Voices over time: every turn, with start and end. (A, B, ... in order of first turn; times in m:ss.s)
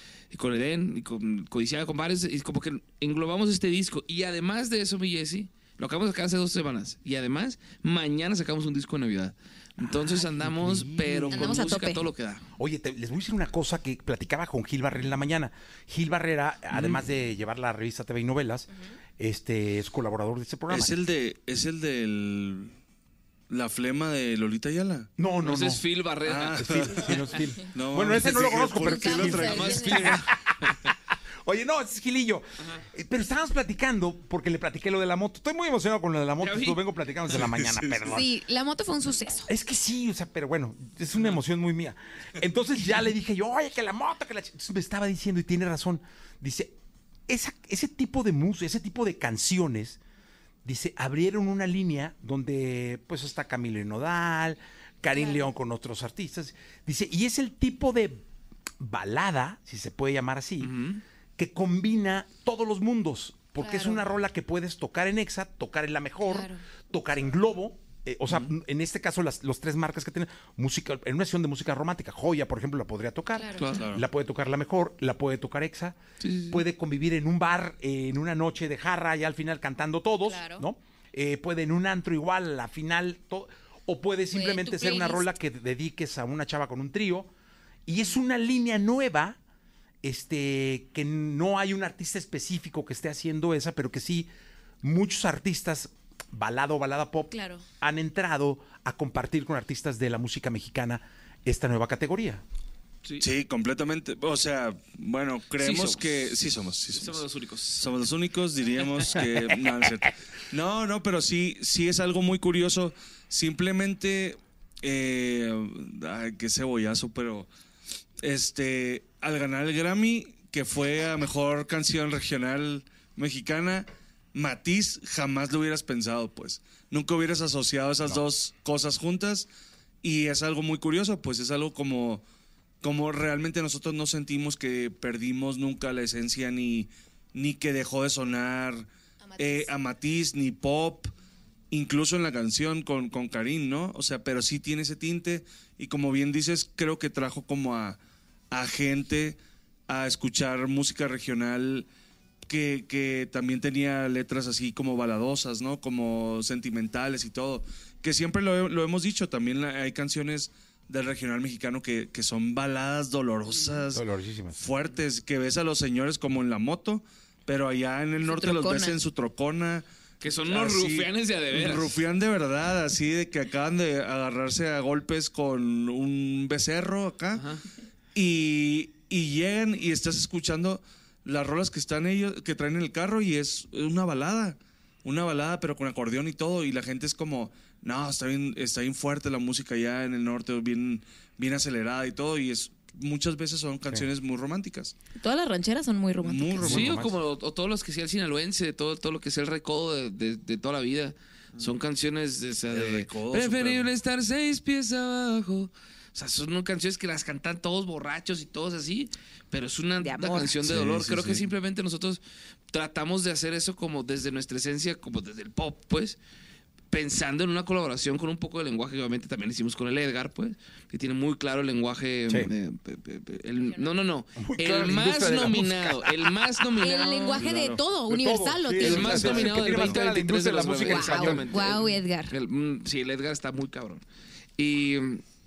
0:00.3-0:12.4 A
0:09.8-0:11.6 B
0:11.3-0:12.0 C
0:12.6-0:20.9 B
0:16.7-0:17.0 A
0:20.7-0:22.7 D
0:23.5-0:25.1 D
0:25.2-0:25.8 B
0:25.4-0:27.1 A
0:26.2-0:30.1 D
0:26.6-0:30.9 B
0:28.8-0:30.1 C
0:29.1-0:30.9 A
0:31.4-0:38.3 B
0:36.4-0:36.8 A
0:37.3-0:38.2 D
0:38.1-0:39.5 C
0:39.5-0:46.7 B
0:47.3-0:50.0 B
0:50.6-0:58.2 B
0:55.2-0:55.4 C
0:58.8-1:00.7 B
1:00.6-1:01.0 A
1:01.4-1:16.0 B
1:03.6-1:04.0 C
1:06.3-1:06.6 C
1:13.3-1:13.6 C
1:13.6-1:13.8 A
1:13.7-1:14.0 D
1:16.2-1:16.6 A
1:16.5-1:27.3 B
1:20.2-1:20.6 C
1:24.3-1:25.2 C
1:27.8-1:29.4 B
1:30.0-1:34.3 B
1:34.8-1:42.4 B
1:37.3-1:37.6 C
1:43.2-1:57.5 D
1:45.6-1:46.4 A
1:46.9-1:47.8 A
1:58.2-2:09.5 D
2:10.0-2:12.2 D
2:12.8-2:18.9 D
2:19.3-2:19.7 C
2:19.4-2:21.1 D
2:21.7-2:28.0 D
2:28.5-2:31.8 D
2:32.5-2:44.0 D
2:43.9-2:44.6 B
2:44.5-2:49.8 D
2:48.2-2:48.9 C
2:50.2-2:52.0 A
2:50.4-2:57.4 D
2:57.3-2:57.6 A
2:58.1-3:14.9 D
3:15.2-3:16.7 C
3:16.2-3:17.0 D
3:16.5-3:17.2 B
3:16.6-3:32.2 A
3:22.7-3:23.9 D
3:30.0-3:30.5 C
3:30.6-3:31.4 D
3:32.7-3:36.2 A
3:36.9-3:47.5 A
3:44.4-3:46.6 B
3:46.8-3:49.2 C
3:47.4-3:47.8 D
3:48.0-3:51.6 B
3:48.8-3:54.0 A
3:50.8-3:52.3 C
3:54.6-3:55.2 A